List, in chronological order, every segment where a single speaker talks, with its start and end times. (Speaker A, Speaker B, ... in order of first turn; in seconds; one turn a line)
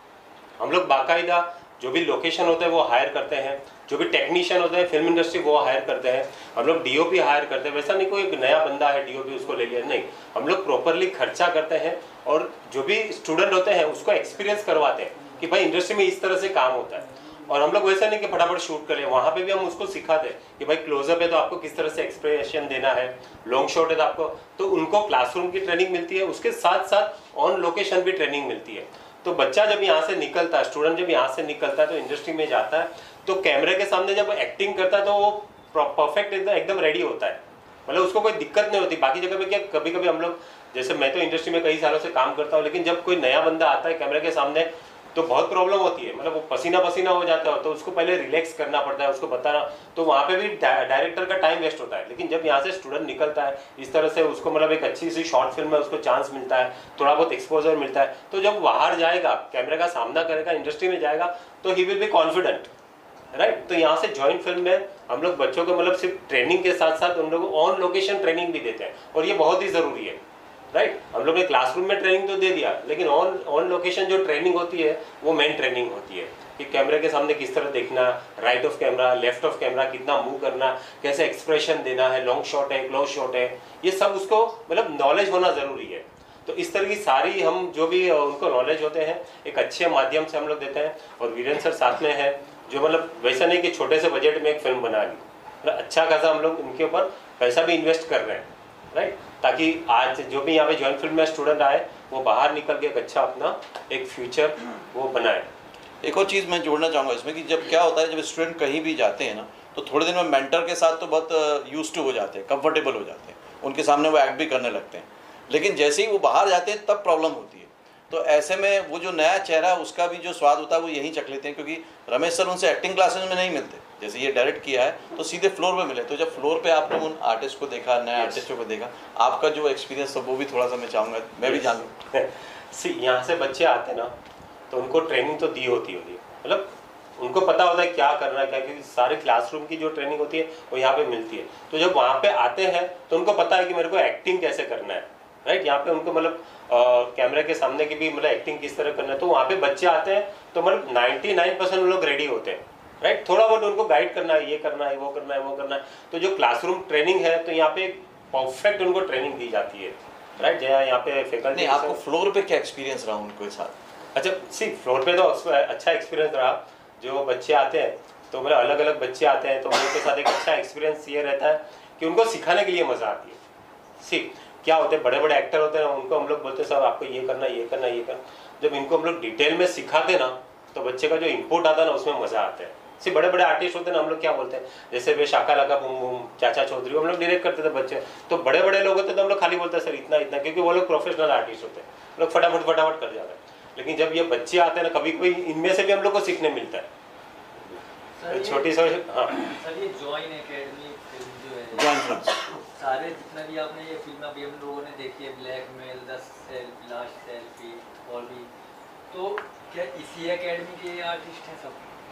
Speaker A: 0.6-62.7
Speaker A: 63.3-70.2
Speaker A: 70.7-105.5
Speaker B: 106.0-131.9
Speaker A: 131.4-134.1
Speaker A: 134.7-162.0
Speaker B: 161.5-163.8
Speaker A: 164.1-173.4
Speaker A: 174.0-196.9
Speaker C: 198.2-198.7
Speaker A: 198.3-199.4
Speaker C: 199.3-202.1
Speaker B: 201.7-202.6
Speaker C: 202.7-208.5
Speaker C: 209.1-211.9